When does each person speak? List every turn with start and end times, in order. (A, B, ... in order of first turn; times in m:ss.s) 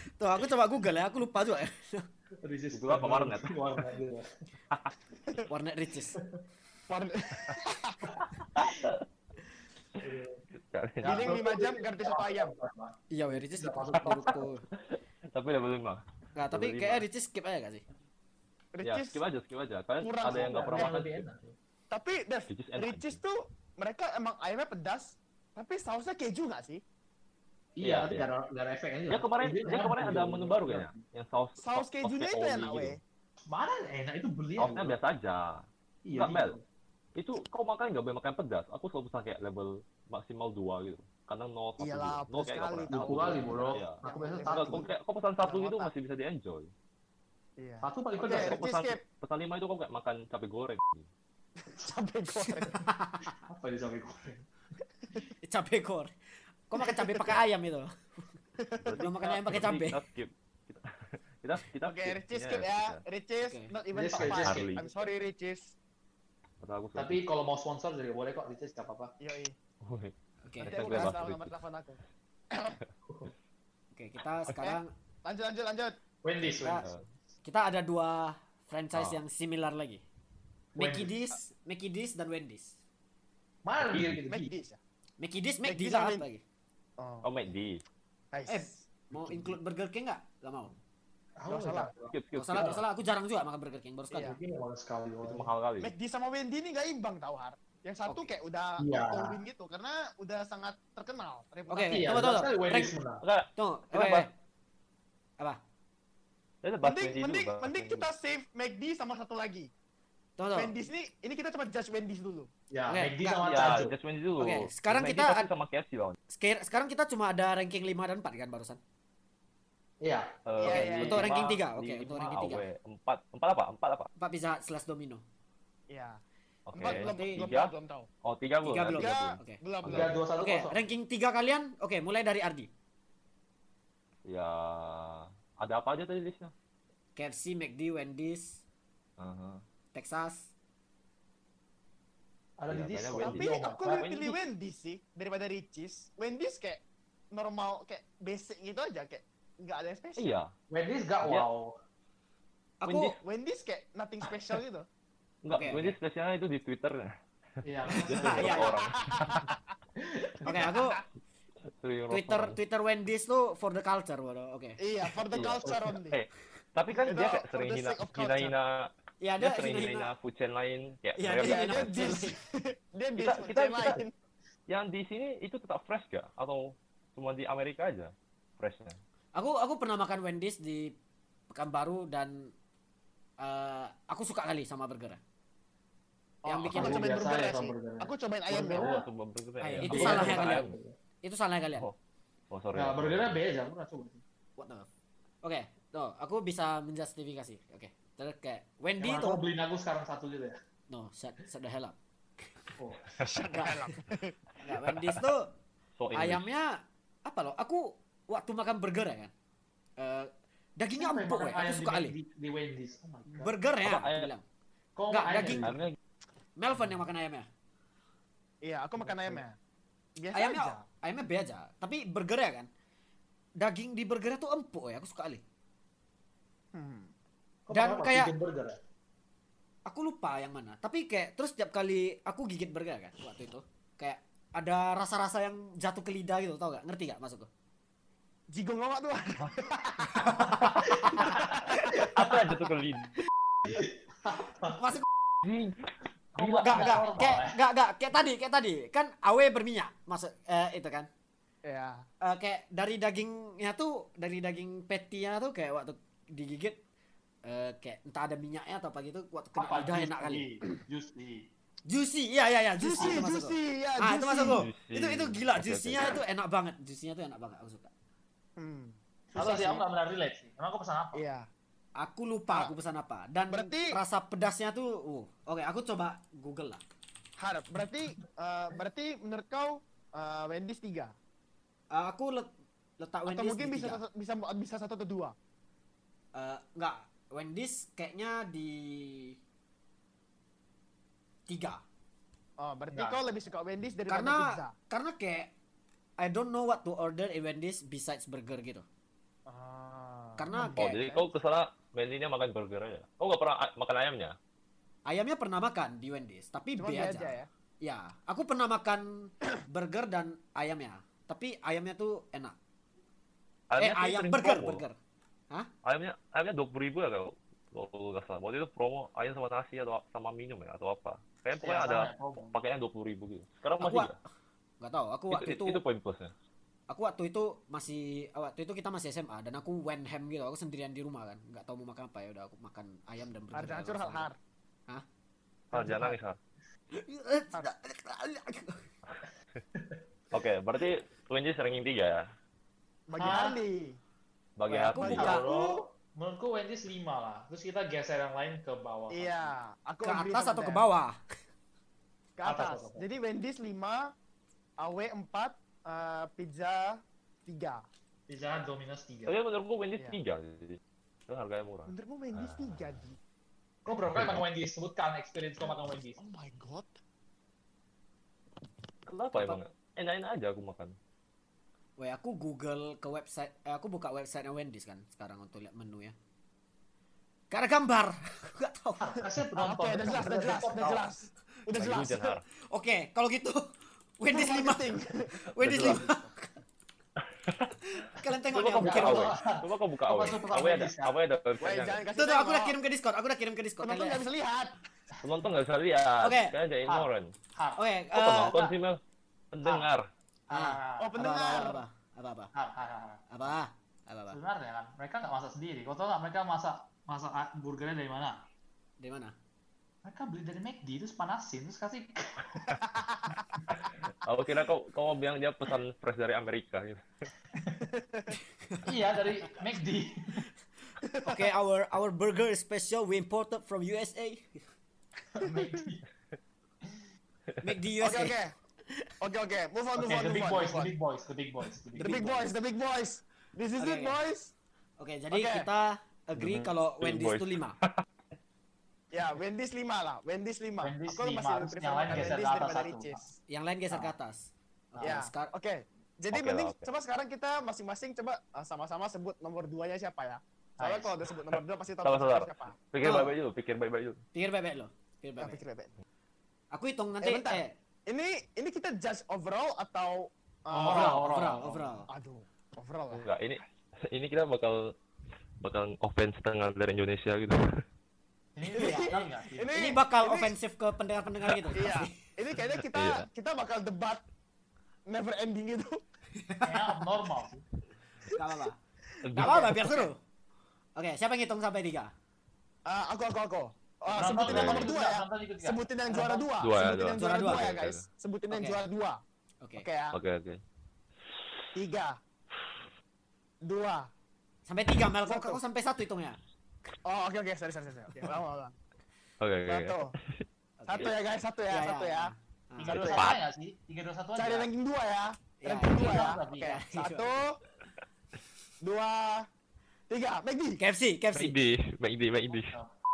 0:00.2-0:02.1 A
0:02.4-0:04.3 B
0:02.7-0:03.8 C
0:05.5-0:06.2 A
0:06.9-0:08.0 D
0:08.0-0:08.9 B
0:08.6-0:08.9 C
0:10.0-0:10.4 B
0:10.6-0:11.4 C
0:11.0-0:12.5 D
0:11.0-0:14.5 B
0:13.1-0:14.6 A
0:14.1-0:17.1 C
0:16.4-0:17.8 A
0:18.8-0:19.2 D
0:18.8-0:21.3 C
0:20.0-0:20.9 D
0:20.2-0:21.6 B
0:21.9-0:26.8 D
0:22.5-0:23.2 C
0:27.8-0:31.0 B
0:27.8-0:28.3 C
0:29.1-0:33.0 C
0:31.6-0:33.0 D
0:33.5-0:35.0 B
0:34.6-0:36.6 C
0:36.0-0:36.6 B
0:37.2-0:46.7 C
0:41.8-0:45.9 D
0:42.9-0:44.9 B
0:47.6-0:49.0 D
0:47.8-0:48.6 B
0:48.2-0:51.1 C
0:51.6-0:52.8 D
0:52.4-0:53.4 A
0:53.4-0:54.4 B
0:55.4-0:56.1 A
0:56.7-0:58.2 A
0:56.8-0:57.4 D
0:58.6-0:59.0 D
0:58.8-1:03.0 C
0:59.0-1:00.0 A
1:01.8-1:05.7 D
1:03.4-1:03.7 A
1:03.9-1:04.8 B
1:04.2-1:04.8 C
1:06.6-1:07.2 C
1:07.0-1:09.1 B
1:09.2-1:09.6 D
1:09.8-1:11.6 C
1:10.4-1:11.2 A
1:10.6-1:12.0 D
1:12.5-1:12.8 D
1:13.9-1:14.9 A
1:14.6-1:16.0 D
1:16.2-1:17.0 B
1:16.6-1:16.9 A
1:16.8-1:17.0 C
1:17.4-1:20.0 A
1:20.8-1:22.8 A
1:20.8-1:21.2 B
1:23.6-1:24.5 B
1:23.8-1:24.2 C
1:24.3-1:24.8 D
1:25.2-1:26.4 A
1:25.6-1:26.3 D
1:27.0-1:27.3 D
1:27.2-1:27.8 C
1:28.3-1:29.6 D
1:28.5-1:30.7 A
1:31.4-1:32.8 B
1:31.5-1:31.9 D
1:32.1-1:32.8 C
1:32.3-1:34.4 A
1:34.2-1:35.5 B
1:35.2-1:35.9 C
1:35.8-1:42.3 D
1:38.8-1:39.4 B
1:41.7-1:42.9 A
1:41.9-1:43.2 B
1:43.2-1:44.3 C
1:43.6-1:44.3 A
1:46.6-1:48.1 C
1:46.8-1:49.7 D
1:50.4-1:50.7 A
1:50.5-1:52.5 D
1:52.7-1:53.9 B
1:52.9-1:53.5 A
1:53.4-1:56.2 C
1:54.4-1:55.5 A
1:56.3-1:58.8 A
2:00.0-2:00.3 B
2:00.4-2:04.1 C
2:00.6-2:01.4 D
2:00.7-2:02.6 A
2:04.2-2:05.2 A
2:05.9-2:06.2 D
2:06.7-2:07.7 C
2:06.8-2:08.1 D
2:06.8-2:07.5 A
2:08.2-2:10.2 C
2:08.6-2:09.6 A
2:08.9-2:10.2 D
2:09.8-2:10.9 B
2:10.4-2:12.7 A
2:14.3-2:16.5 C
2:17.2-2:18.6 A
2:19.2-2:19.6 C
2:19.9-2:20.5 A
2:22.6-2:24.4 B
2:22.7-2:23.5 C
2:23.2-2:26.8 D
2:27.3-2:30.4 D
2:30.2-2:30.5 C
2:30.7-2:31.8 B
2:31.2-2:31.5 C
2:32.8-2:33.2 A
2:32.9-2:33.2 C
2:33.2-2:34.9 D
2:35.4-2:37.1 C
2:35.5-2:36.0 A
2:37.6-2:38.8 B
2:37.9-2:39.5 C
2:38.1-2:38.8 A
2:38.7-2:39.6 D
2:40.0-2:40.7 B
2:40.4-2:41.0 D
2:40.4-2:41.0 A
2:41.8-2:42.6 C
2:42.1-2:44.8 A
2:44.8-2:46.2 D
2:45.3-2:52.2 C
2:45.6-2:45.9 B
2:46.9-2:48.5 D
2:49.2-2:50.1 A
2:51.2-2:52.4 A
2:51.4-2:54.1 D
2:53.2-2:54.0 C
2:54.7-2:59.0 C
2:59.4-3:00.9 A
3:01.5-3:02.5 A
3:03.4-3:05.2 A
3:06.4-3:08.9 D
3:06.4-3:07.1 A
3:06.7-3:09.1 B
3:08.7-3:10.8 C
3:09.6-3:10.7 A
3:09.8-3:11.0 B
3:11.2-3:11.9 A
3:12.5-3:13.4 C
3:12.7-3:14.2 B
3:14.6-3:14.9 A
3:15.4-3:19.4 A
3:19.0-3:20.6 B
3:20.9-3:22.0 A
3:22.8-3:23.1 B
3:23.2-3:24.4 D
3:23.5-3:23.9 A
3:24.6-3:25.5 A
3:24.8-3:25.3 C
3:26.0-3:26.4 C
3:26.1-3:29.3 A
3:30.0-3:32.1 A
3:30.9-3:33.6 B
3:33.4-3:34.4 A
3:33.8-3:34.3 C
3:35.0-3:35.8 B
3:35.1-3:35.8 A
3:35.6-3:36.0 C
3:36.6-3:37.5 A
3:38.6-3:39.6 D
3:40.2-3:40.8 D
3:40.3-3:42.7 A
3:43.6-3:45.4 A
3:46.7-3:47.1 D
3:47.7-3:48.8 B
3:47.7-3:48.3 A
3:49.9-3:57.5 A
3:58.5-4:02.0 D
4:00.2-4:03.2 C
4:00.4-4:02.5 B
4:03.6-4:04.9 B
4:04.8-4:05.0 A
4:05.4-4:07.3 C
4:06.4-4:07.6 B
4:06.6-4:11.1 A
4:11.6-4:12.1 D
4:12.2-4:16.8 A
4:17.4-4:20.4 A
4:19.6-4:21.5 B
4:21.9-4:27.9 A
4:22.8-4:24.6 D
4:24.5-4:26.2 C
4:28.6-4:29.8 D
4:29.4-4:31.2 B
4:31.1-4:31.5 D
4:32.0-4:36.8 A
4:33.5-4:34.0 D
4:37.4-4:41.1 D
4:41.9-4:44.0 A
4:43.3-4:45.4 D
4:46.4-4:49.4 A
4:51.5-4:51.8 A
4:52.6-4:54.7 D
4:52.9-4:53.2 B
4:54.1-4:55.5 A
4:56.2-4:58.9 A
4:59.5-5:01.2 D
5:00.4-5:01.1 A
5:00.8-5:04.4 C
5:05.1-5:12.6 A
5:06.8-5:07.5 D
5:13.7-5:14.8 C
5:13.8-5:15.0 A
5:15.8-5:24.1 C
5:21.6-5:22.6 B
5:23.8-5:24.2 A
5:24.8-5:25.8 A
5:25.3-5:26.3 C
5:26.9-5:34.3 A
5:33.5-5:34.4 D
5:35.7-5:36.4 C
5:36.9-5:38.8 A
5:40.3-5:42.2 C
5:43.1-5:44.0 D
5:43.2-5:43.6 B
5:44.6-5:45.4 C
5:44.8-5:45.4 A
5:44.8-5:49.5 B
5:45.0-5:45.8 D
5:49.1-5:50.8 D
5:50.0-5:51.2 A
5:52.4-5:54.1 D
5:52.4-5:53.1 B
5:54.8-5:57.8 D
5:58.3-5:59.3 B
5:59.3-6:02.8 C
6:01.9-6:03.2 D
6:03.8-6:06.2 B
6:04.1-6:04.4 C
6:06.2-6:06.9 D
6:09.1-6:10.9 C
6:09.3-6:09.6 A
6:12.0-6:16.1 A
6:17.5-6:19.2 A
6:19.0-6:21.0 B
6:19.6-6:22.4 D
6:21.8-6:22.4 C
6:22.7-6:26.6 A
6:24.3-6:25.3 D
6:25.6-6:26.2 C
6:27.4-6:27.8 C
6:27.9-6:29.4 A
6:28.5-6:32.0 C
6:28.8-6:31.2 B
6:31.6-6:32.8 D
6:32.2-6:34.2 A
6:33.8-6:34.7 D
6:35.2-6:37.3 C
6:36.2-6:36.6 A
6:36.9-6:37.8 B
6:37.8-6:38.6 A
6:38.1-6:39.0 C
6:38.4-6:38.7 B
6:39.5-6:40.1 C
6:39.6-6:39.9 B
6:40.5-6:41.1 B
6:40.5-6:42.5 A
6:41.0-6:41.8 D
6:42.5-6:43.3 B
6:43.3-6:44.4 A
6:44.3-6:48.4 B
6:49.0-6:49.4 A
6:50.0-6:52.9 B
6:52.8-6:53.4 D
6:53.5-6:53.8 B
6:54.2-6:57.0 C
6:57.5-6:57.9 B
6:57.9-6:58.4 D
6:58.8-7:00.4 B
7:01.1-7:01.4 D
7:01.2-7:04.6 A
7:05.3-7:06.0 B
7:07.6-7:08.4 A
7:08.0-7:08.5 D
7:09.2-7:10.9 D
7:10.0-7:12.5 B
7:12.0-7:14.5 D
7:13.8-7:14.2 A
7:15.0-7:17.8 A
7:15.3-7:15.7 D
7:16.4-7:18.0 C
7:19.1-7:23.3 D
7:20.8-7:23.2 B
7:23.5-7:25.5 A
7:25.0-7:32.8 D
7:26.3-7:26.9 C
7:30.8-7:31.1 B
7:32.0-7:34.2 C
7:33.0-7:33.3 A
7:34.3-7:35.6 A
7:35.4-7:35.9 D
7:36.7-7:37.8 A
7:37.2-7:41.2 D
7:40.7-7:41.9 B
7:40.8-7:42.1 A
7:42.1-7:43.2 D
7:43.1-7:44.9 C
7:45.6-7:47.8 C
7:48.6-7:50.0 B
7:48.7-7:52.1 A
7:48.8-7:50.5 D
7:51.7-7:54.2 D
7:52.8-7:53.3 C
7:55.1-7:56.0 D
7:56.4-7:57.0 A
7:56.6-7:57.6 B
7:58.3-7:58.8 A
7:59.2-7:59.9 C
7:59.3-8:00.1 D
7:59.4-8:00.2 A
8:01.0-8:02.1 A
8:02.9-8:09.2 D
8:04.1-8:06.3 B
8:04.4-8:04.9 C
8:06.6-8:08.0 C
8:07.2-8:07.7 A
8:08.5-8:08.8 A
8:09.6-8:09.9 A
8:09.8-8:10.2 D
8:10.1-8:10.6 C
8:11.7-8:12.2 D
8:13.6-8:14.1 D
8:14.7-8:16.4 A
8:15.3-8:15.6 D
8:17.0-8:18.7 D
8:19.4-8:20.4 C
8:19.7-8:20.1 D
8:20.8-8:21.1 A
8:20.9-8:22.3 D
8:21.7-8:23.2 A
8:22.8-8:24.7 B
8:22.9-8:23.4 C
8:24.3-8:27.6 D
8:25.6-8:27.4 A
8:25.9-8:26.8 B
8:28.8-8:29.5 D
8:30.1-8:30.8 D
8:30.8-8:31.6 A
8:31.3-8:32.8 C